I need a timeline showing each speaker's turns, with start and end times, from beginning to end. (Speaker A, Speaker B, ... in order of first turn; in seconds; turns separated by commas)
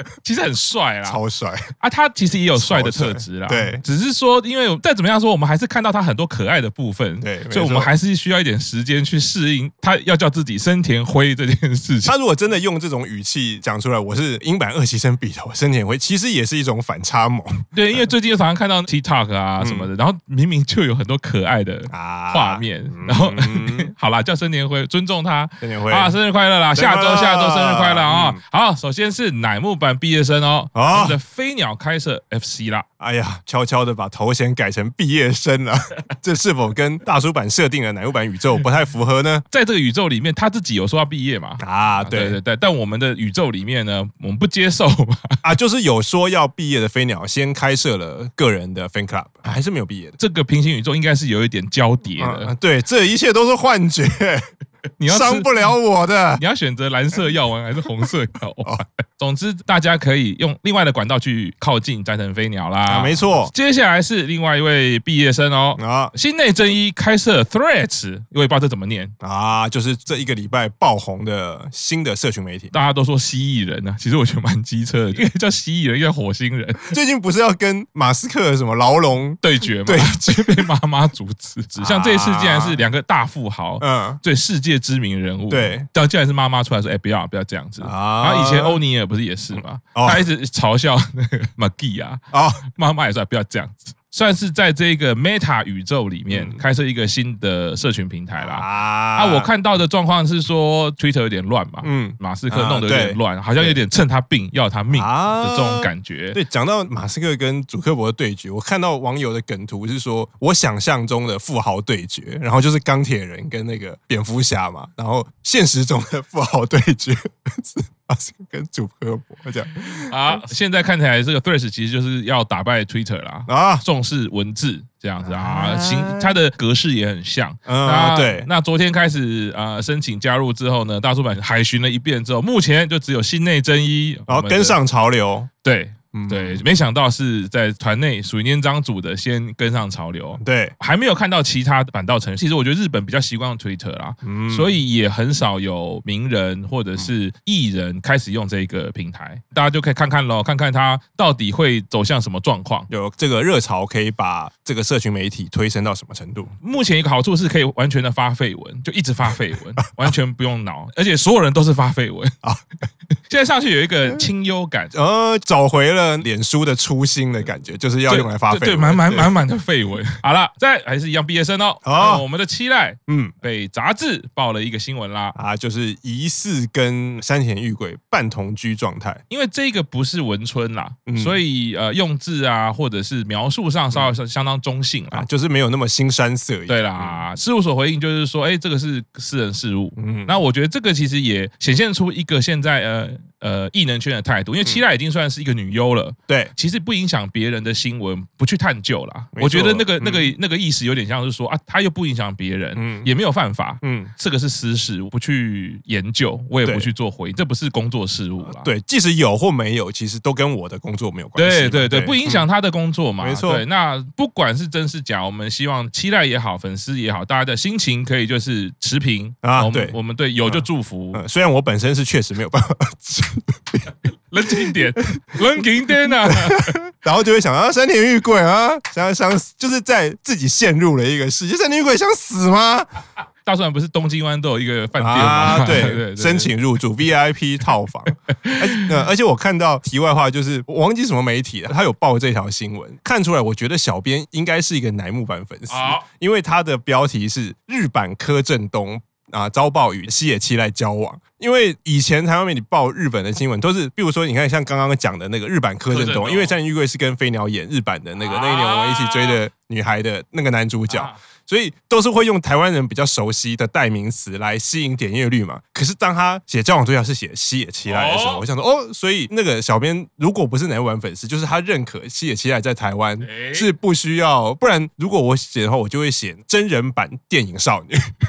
Speaker A: 0.2-1.2, Speaker B: 1.1-1.7, Speaker A: 1.8-12.1, Speaker B: 2.5-3.8, Speaker B: 7.2-7.9, Speaker B: 12.1-18.1, Speaker A: 17.7-32.9, Speaker B: 19.6-19.9, Speaker B: 21.9-23.9, Speaker B: 25.6-26.2, Speaker B: 26.8-28.4, Speaker B: 30.8-31.2, Speaker B: 33.0-39.4, Speaker A: 39.5-45.4, Speaker B: 41.6-42.4, Speaker B: 45.4-50.2, Speaker A: 50.2-52.5, Speaker B: 52.2-54.4, Speaker A: 55.0-55.7, Speaker B: 55.1-56.4, Speaker A: 56.4-69.1, Speaker B: 62.9-63.5, Speaker B: 65.8-66.1, Speaker B: 69.2-72.7, Speaker A: 72.7-77.0, Speaker B: 76.9-80.6, Speaker A: 79.4-106.4, Speaker B: 81.8-82.8, Speaker B: 83.8-84.2, Speaker B: 85.5-85.9, Speaker B: 87.8-88.8, Speaker B: 89.5-90.2, Speaker B: 92.3-92.6, Speaker B: 96.3-96.6, Speaker B: 98.4-99.5, Speaker B: 101.8-103.8, Speaker B: 104.9-120.4, Speaker A: 120.0-134.8, Speaker B: 123.5-123.8, Speaker B: 125.2-126.4, Speaker B: 127.7-128.5, Speaker B: 134.3-135.5, Speaker A: 135.6-152.9, Speaker B: 136.1-136.6, Speaker B: 140.4-140.8, Speaker B: 144.2-144.8, Speaker B: 152.9-156.5, Speaker A: 156.6-162.3, Speaker A: 163.3-164.9, Speaker B: 164.9-169.3, Speaker A: 168.1-175.3, Speaker B: 171.8-172.2, Speaker B: 173.1-173.3, Speaker B: 175.3-179.2, Speaker A: 179.3-185.3, Speaker B: 181.1-181.4, Speaker B: 185.1-187.2, Speaker A: 186.7-208.7, Speaker B: 190.0-190.4, Speaker B: 199.4-200.3, Speaker B: 202.8-203.1, Speaker B: 203.8-204.1, Speaker B: 206.6-206.9, Speaker B: 208.4-212.5, Speaker A: 211.4-221.2, Speaker B: 213.2-213.6, Speaker B: 219.4-223.9, Speaker A: 224.3-226.8, Speaker B: 224.5-224.8, Speaker B: 226.2-232.9, Speaker A: 233.4-236.5, Speaker B: 235.0-278.0, Speaker A: 238.4-238.9, Speaker A: 245.7-246.1, Speaker A: 255.9-256.6, Speaker A: 258.2-259.4, Speaker A: 260.9-261.2, Speaker A: 267.9-268.4, Speaker A: 273.2-273.7